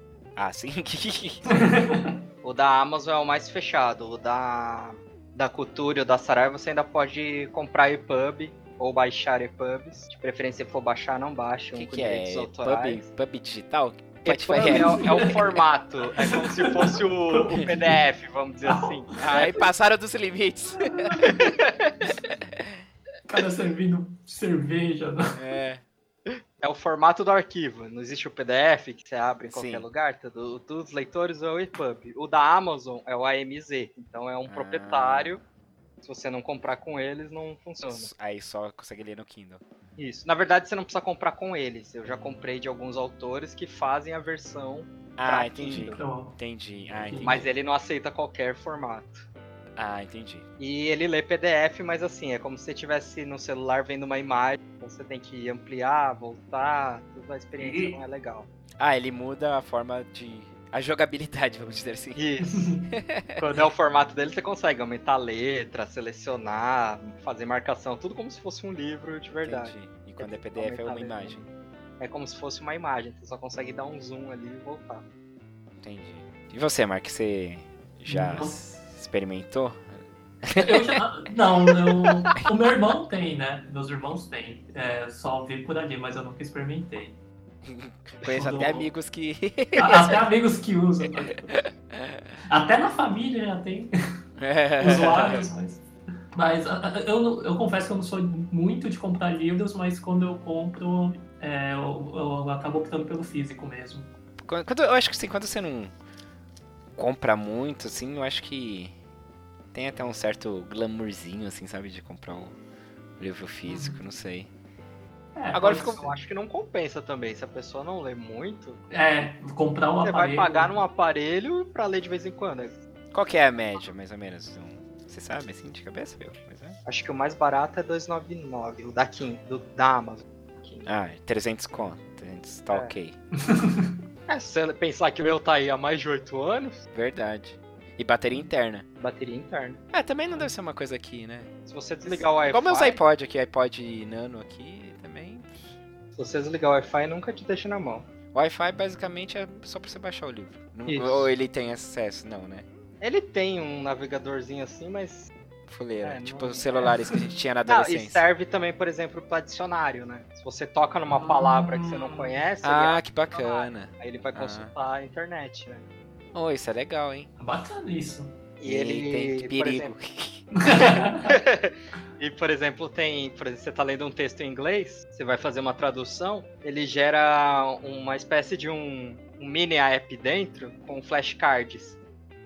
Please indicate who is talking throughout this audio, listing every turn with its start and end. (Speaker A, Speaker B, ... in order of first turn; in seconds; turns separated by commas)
Speaker A: 0.3-1.7, Speaker B: 1.5-2.1, Speaker C: 2.4-13.0, Speaker A: 11.7-15.6, Speaker C: 14.2-19.6, Speaker B: 14.6-15.3, Speaker B: 16.2-18.0, Speaker B: 18.6-19.5, Speaker A: 19.2-21.5, Speaker B: 20.7-21.4, Speaker C: 21.4-21.8, Speaker A: 22.2-22.8, Speaker B: 23.3-25.4, Speaker A: 25.3-25.8, Speaker C: 26.6-35.4, Speaker A: 29.5-29.9, Speaker A: 34.5-35.4, Speaker C: 36.0-38.1, Speaker A: 37.9-39.6, Speaker C: 40.0-46.0, Speaker A: 45.2-47.5, Speaker B: 45.9-46.4, Speaker B: 46.9-47.5, Speaker C: 47.2-49.2, Speaker A: 49.8-50.5, Speaker C: 50.6-58.5, Speaker B: 57.6-58.0, Speaker A: 58.8-62.2, Speaker C: 62.1-62.7, Speaker B: 62.4-62.9, Speaker A: 62.9-63.4, Speaker B: 63.4-63.7, Speaker C: 63.5-71.5, Speaker A: 69.4-71.4, Speaker C: 72.0-75.0, Speaker A: 75.8-81.0, Speaker B: 78.1-78.6, Speaker B: 80.5-87.2, Speaker A: 82.0-82.4, Speaker A: 87.6-90.2, Speaker B: 88.2-88.9, Speaker B: 89.8-91.5, Speaker A: 91.5-92.3, Speaker B: 92.5-93.9, Speaker A: 94.4-95.5, Speaker B: 94.8-104.1, Speaker A: 104.4-105.9, Speaker A: 107.0-109.0, Speaker A: 109.7-112.6, Speaker A: 113.2-114.5, Speaker B: 113.6-114.0, Speaker B: 115.3-116.1, Speaker A: 115.5-116.0, Speaker C: 115.6-118.8, Speaker B: 118.9-120.8, Speaker C: 120.0-122.8, Speaker A: 123.1-126.8, Speaker C: 126.8-130.9, Speaker A: 130.8-133.2, Speaker B: 133.4-133.9, Speaker C: 134.3-136.8, Speaker A: 136.9-138.8, Speaker C: 139.0-139.8, Speaker A: 139.9-141.5, Speaker C: 141.7-143.0, Speaker A: 142.1-145.7, Speaker C: 146.2-148.1, Speaker A: 148.3-152.7, Speaker C: 150.9-151.3, Speaker C: 153.0-155.3, Speaker A: 155.7-158.2, Speaker C: 156.0-156.9, Speaker C: 157.7-165.8, Speaker B: 161.1-162.3, Speaker A: 162.6-164.7, Speaker A: 166.3-167.3, Speaker B: 167.4-168.3, Speaker C: 168.6-169.9, Speaker A: 168.6-171.0, Speaker B: 170.5-171.3, Speaker C: 171.3-182.0